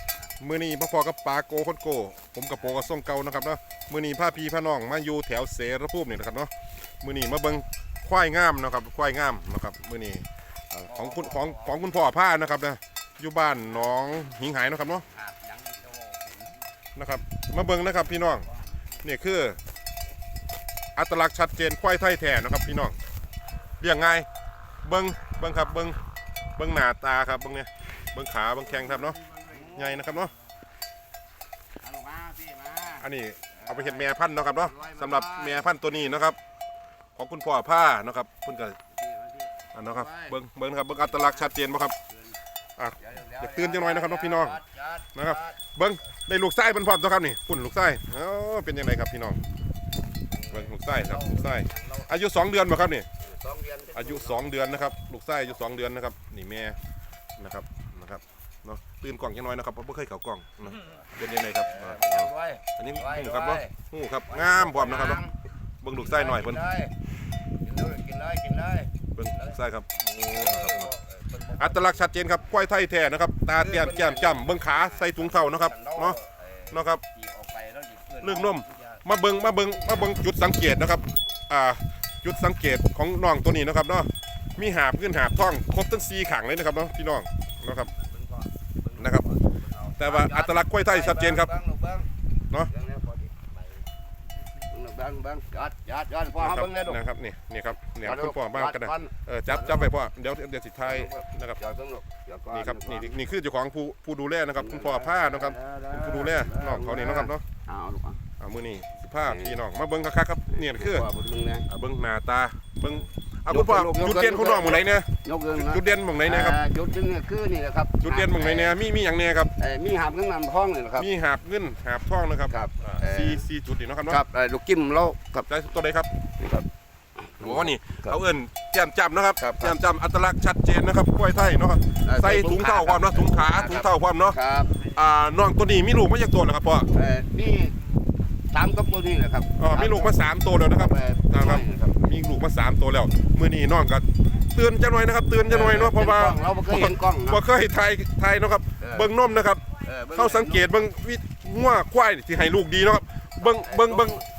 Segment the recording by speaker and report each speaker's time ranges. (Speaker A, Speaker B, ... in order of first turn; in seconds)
Speaker A: 0.4-6.5, 7.0-15.0, 16.9-18.5, 19.0-19.6, 20.9-23.0, 23.8-24.3, 24.8-26.0, 26.6-30.3, 33.0-36.4, 37.1-38.8, 39.7-41.9, 42.8-44.6, 45.1-49.4, 50.5-53.1, 53.9-56.8, 57.4-65.2, 65.8-66.6, 69.2-70.9, 71.6-76.2, 76.7-77.0, 78.2-87.9, 89.0-89.2, 90.0-91.5, 96.4-101.6, 102.5-107.4, 108.4-111.0, 111.7-116.6, 118.0-119.5, 121.0-124.2, 125.5-126.1, 127.4-136.9, 139.6-154.2
Speaker B: 10.9-11.9, 15.1-16.6, 29.0-30.1, 31.8-35.7, 39.0-40.3, 41.0-42.4, 43.0-45.6, 50.3-52.1, 53.2-54.5, 60.7-65.3, 66.0-66.9, 67.6-69.6, 70.2-72.1, 73.5-79.0, 79.8-80.1, 87.8-92.1, 92.6-93.8, 94.7-97.0, 98.0-99.9, 100.8-103.2, 104.6-108.2, 109.2-109.6, 110.5-111.7, 112.8-118.8, 119.6-121.1, 122.5-123.5, 124.1-125.5, 126.4-126.7, 127.2-128.2, 129.4-129.7, 132.0-134.8, 136.9-137.8, 138.5-142.0, 145.4-147.4, 148.8-149.1, 149.8-150.7, 153.4-154.2